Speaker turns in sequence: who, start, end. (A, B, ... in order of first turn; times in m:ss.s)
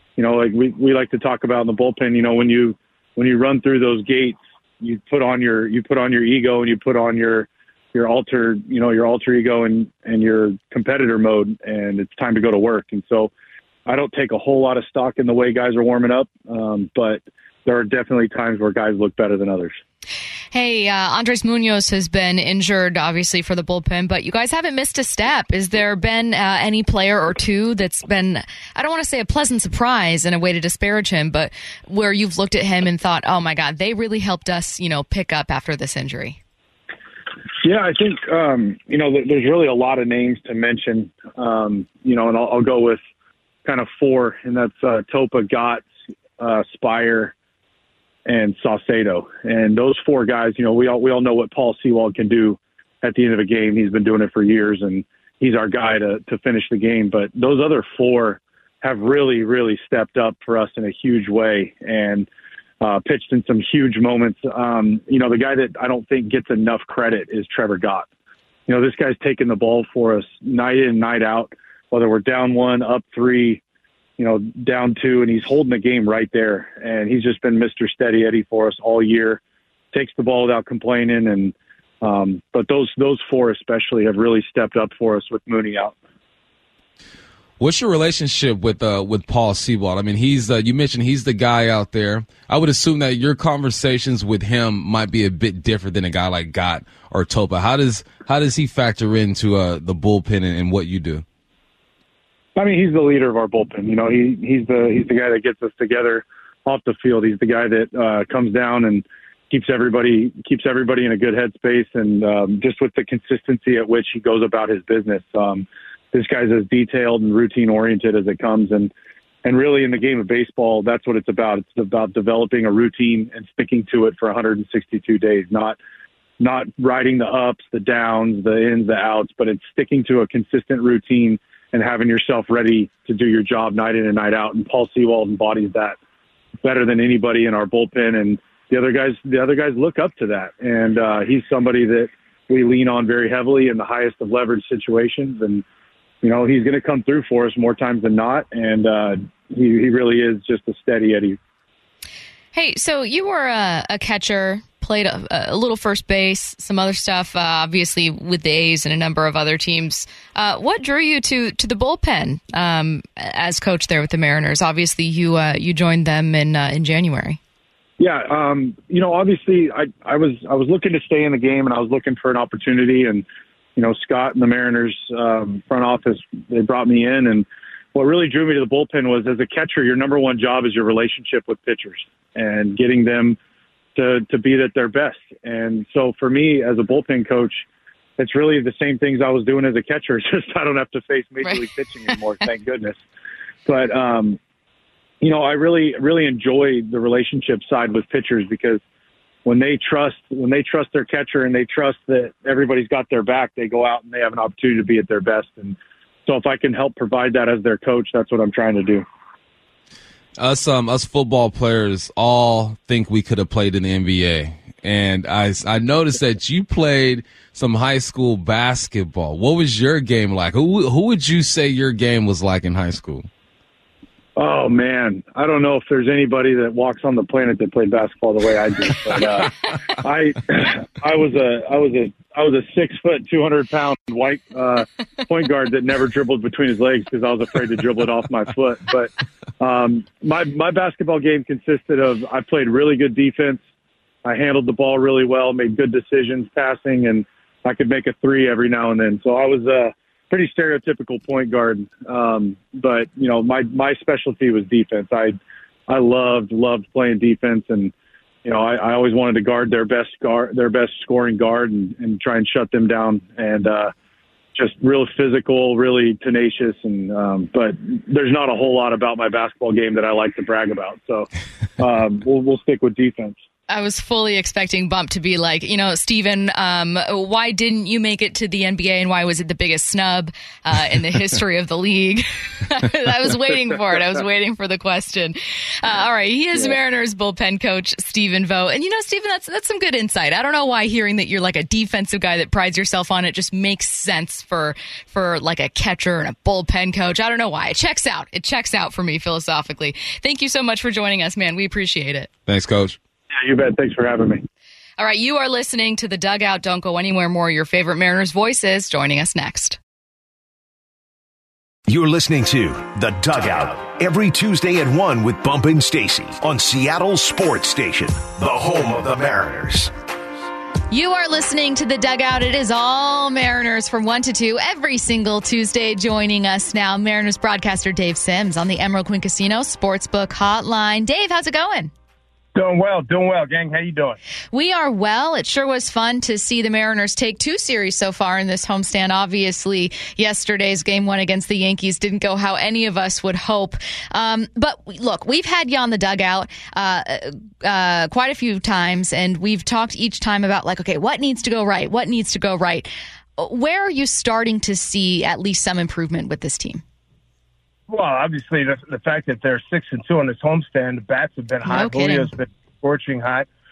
0:00.2-0:13.3 A
0:13.8-0:19.8 A
0:20.5-0:36.4 B
0:37.6-0:43.0 A
0:43.6-0:45.9 A
0:46.4-0:47.3 A
0:48.2-1:02.3 A
1:02.8-1:08.1 A
1:08.7-1:13.6 A
1:14.2-1:19.4 A
1:19.9-1:26.0 A
1:27.6-1:41.2 C
1:42.6-1:58.9 A
1:59.4-2:05.8 A
2:06.4-2:16.0 A
2:16.6-2:25.6 A
2:26.2-2:31.4 A
2:32.5-2:47.4 B
2:48.0-2:53.2 A
2:53.8-3:03.4 A
3:03.9-3:07.6 A
3:08.2-3:13.0 A
3:13.6-3:14.4 A
3:15.2-3:18.8 A
3:19.4-3:29.0 A
3:30.4-3:43.3 C
3:44.4-4:03.6 A
4:04.2-4:23.9 A
4:24.5-4:33.4 A
4:33.7-5:02.3 B
5:02.5-5:03.0 C
5:03.3-5:04.4 A
5:05.0-5:09.8 B
5:11.9-5:19.9 D
5:20.9-5:31.9 B
5:32.5-5:34.2 E
5:34.5-5:56.8 B
5:57.9-6:03.5 E
6:01.6-6:02.3 B